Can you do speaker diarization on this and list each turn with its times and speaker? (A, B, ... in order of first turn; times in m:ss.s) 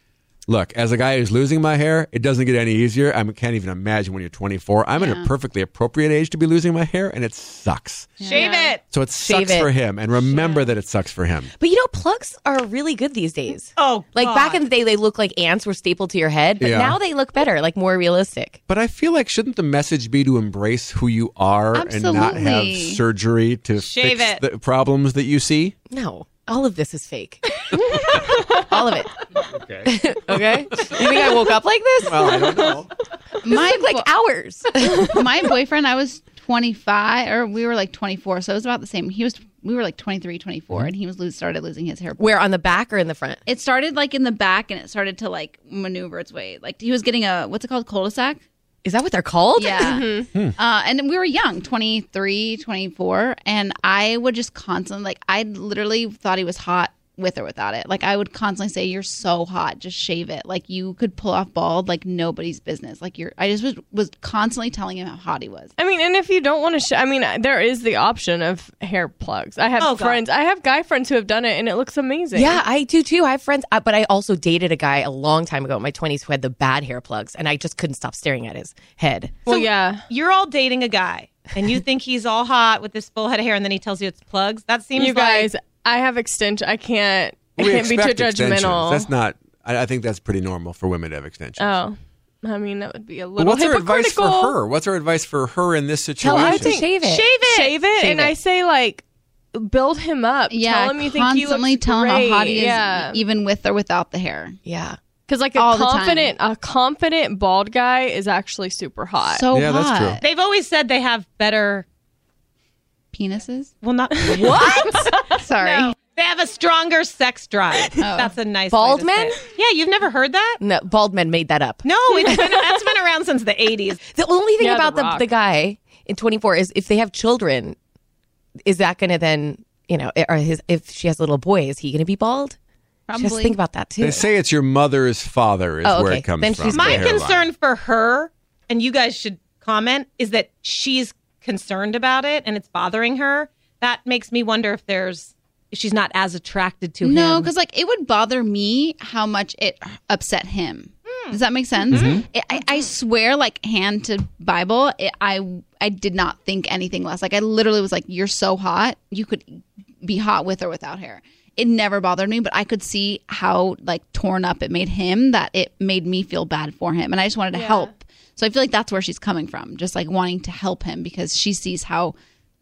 0:00.5-0:08.2 A
0:05.0-0:05.3 B
0:08.2-0:08.6 B
0:08.2-0:08.8 C
0:08.3-0:08.7 D
0:08.9-0:11.5 A
0:09.2-0:09.7 E
0:11.6-0:18.6 E
0:13.8-0:14.6 C
0:16.6-0:17.0 A
0:18.7-0:25.8 A
0:21.7-0:23.0 B
0:23.8-0:24.4 C
0:25.9-0:29.2 E
0:27.8-0:28.6 D
0:29.5-0:31.2 A
0:29.8-0:32.4 E
0:32.0-0:32.9 A
0:32.3-0:32.8 D
0:33.4-0:34.1 B
0:33.5-0:35.2 E
0:35.0-0:42.3 B
0:42.2-0:43.4 E
0:43.5-0:48.4 B
0:48.8-0:50.0 E
0:49.6-1:05.7 B
0:49.8-0:50.3 D
1:05.8-1:12.6 D
1:09.8-1:10.2 C
1:12.4-1:19.5 E
1:19.5-1:20.0 D
1:19.5-1:25.5 C
1:25.0-1:29.1 D
1:27.6-1:31.8 A
1:31.6-1:34.5 D
1:33.4-1:36.8 A
1:36.2-1:37.4 E
1:36.2-1:43.2 D
1:37.0-1:37.8 C
1:38.0-1:38.3 E
1:40.5-1:44.6 B
1:44.6-1:45.0 E
1:45.3-1:49.4 D
1:45.6-1:46.3 B
1:49.3-1:50.2 B
1:49.5-1:50.2 A
1:50.2-1:51.9 C
1:53.1-1:53.7 B
1:53.8-2:00.6 C
1:54.2-1:55.4 D
1:55.3-1:56.0 B
1:58.0-1:58.3 B
1:58.7-1:59.4 E
2:00.6-2:02.6 E
2:01.8-2:04.0 C
2:02.1-2:02.8 D
2:04.1-2:07.8 E
2:04.6-2:05.3 D
2:08.6-2:12.6 E
2:13.1-2:13.6 B
2:13.2-2:14.3 E
2:14.0-2:17.5 A
2:15.8-2:17.1 E
2:16.7-2:27.5 C
2:27.0-2:52.1 B
2:31.1-2:32.2 C
2:31.9-2:32.2 A
2:47.5-2:47.9 D